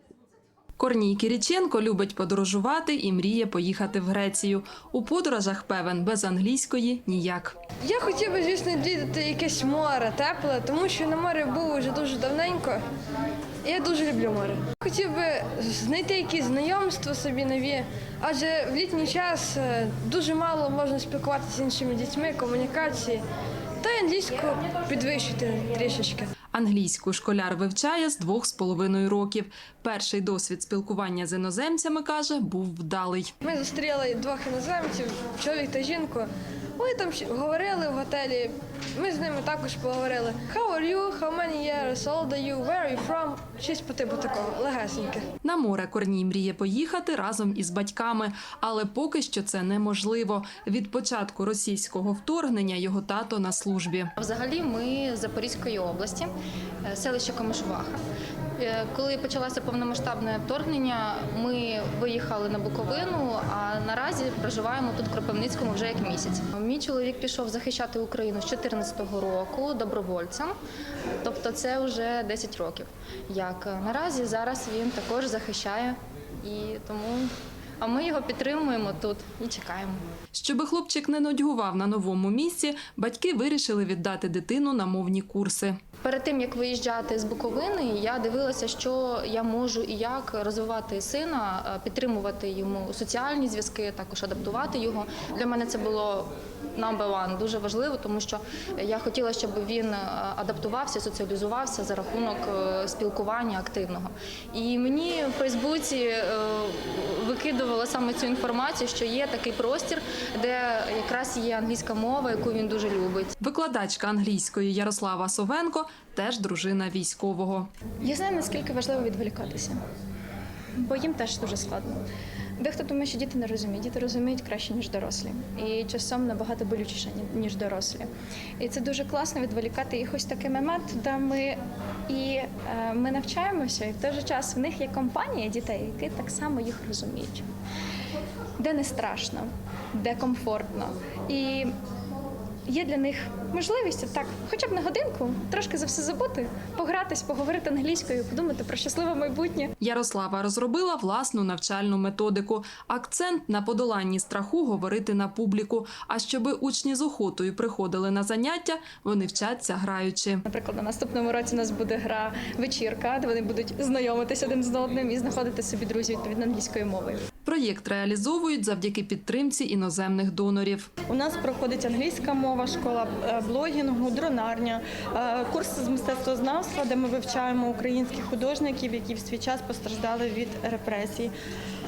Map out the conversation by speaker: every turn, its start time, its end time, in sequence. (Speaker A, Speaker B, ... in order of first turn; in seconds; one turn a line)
Speaker A: 0.8-7.6
Speaker B: 7.8-12.8
Speaker B: 13.6-23.2
Speaker B: 23.8-26.3
Speaker A: 26.5-33.3
Speaker B: 33.4-45.2
Speaker A: 45.4-54.1
Speaker C: 54.2-56.3
Speaker C: 56.8-58.0
Speaker C: 58.6-70.5
Speaker C: 71.2-80.0
Speaker A: 80.3-85.8
Speaker C: 86.0-113.3
Speaker A: 113.4-117.7
Speaker D: 118.0-119.8
Speaker D: 120.8-122.0
Speaker D: 122.6-131.6
Speaker D: 132.1-137.4
Speaker D: 138.6-141.7
Speaker D: 142.7-149.7
Speaker A: 149.8-160.4
Speaker D: 160.4-167.2
Speaker A: 167.4-170.9
Speaker E: 171.1-181.3